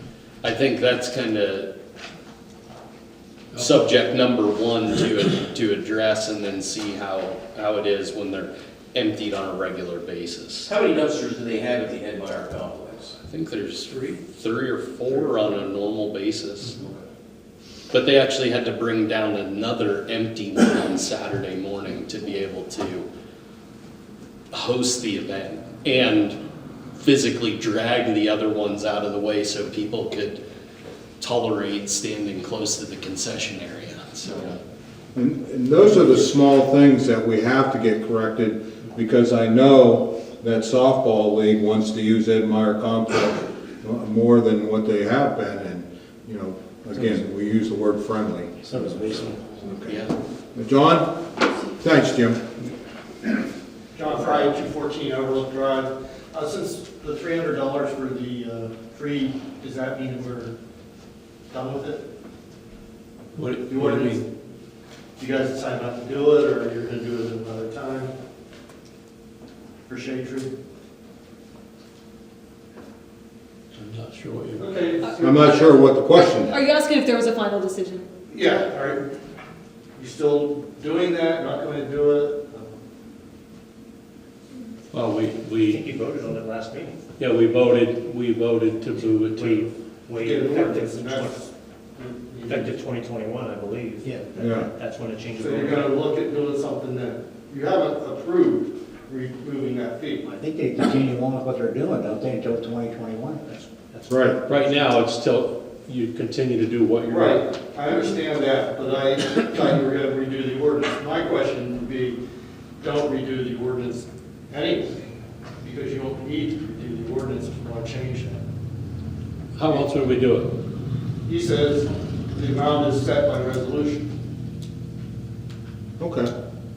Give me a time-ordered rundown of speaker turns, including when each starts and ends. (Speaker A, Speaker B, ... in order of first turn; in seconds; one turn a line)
Speaker A: 0.4-1.7
Speaker A: 3.5-10.7
Speaker B: 10.7-13.1
Speaker A: 13.2-16.8
Speaker A: 17.9-23.1
Speaker A: 24.5-26.4
Speaker A: 27.0-30.4
Speaker A: 31.2-34.6
Speaker C: 35.1-50.0
Speaker D: 48.7-49.4
Speaker A: 49.9-50.1
Speaker C: 50.5-51.1
Speaker C: 51.7-52.4
Speaker E: 54.0-60.6
Speaker E: 61.5-62.1
Speaker F: 63.4-64.2
Speaker E: 63.7-64.2
Speaker E: 65.2-68.1
Speaker E: 69.9-70.5
Speaker F: 73.7-74.7
Speaker E: 74.6-75.7
Speaker G: 75.0-78.1
Speaker C: 75.2-76.6
Speaker E: 78.3-79.1
Speaker E: 80.0-82.8
Speaker F: 84.9-85.8
Speaker H: 85.6-87.0
Speaker F: 87.2-89.7
Speaker H: 88.9-91.5
Speaker E: 90.2-92.7
Speaker H: 92.5-96.0
Speaker C: 94.4-94.7
Speaker E: 95.4-100.2
Speaker D: 100.2-103.4
Speaker H: 103.5-104.9
Speaker C: 104.1-104.4
Speaker F: 104.5-107.4
Speaker E: 107.1-112.2
Speaker E: 112.8-115.0
Speaker E: 115.6-118.4
Speaker F: 119.6-120.5
Speaker E: 121.3-124.1
Speaker C: 126.0-126.3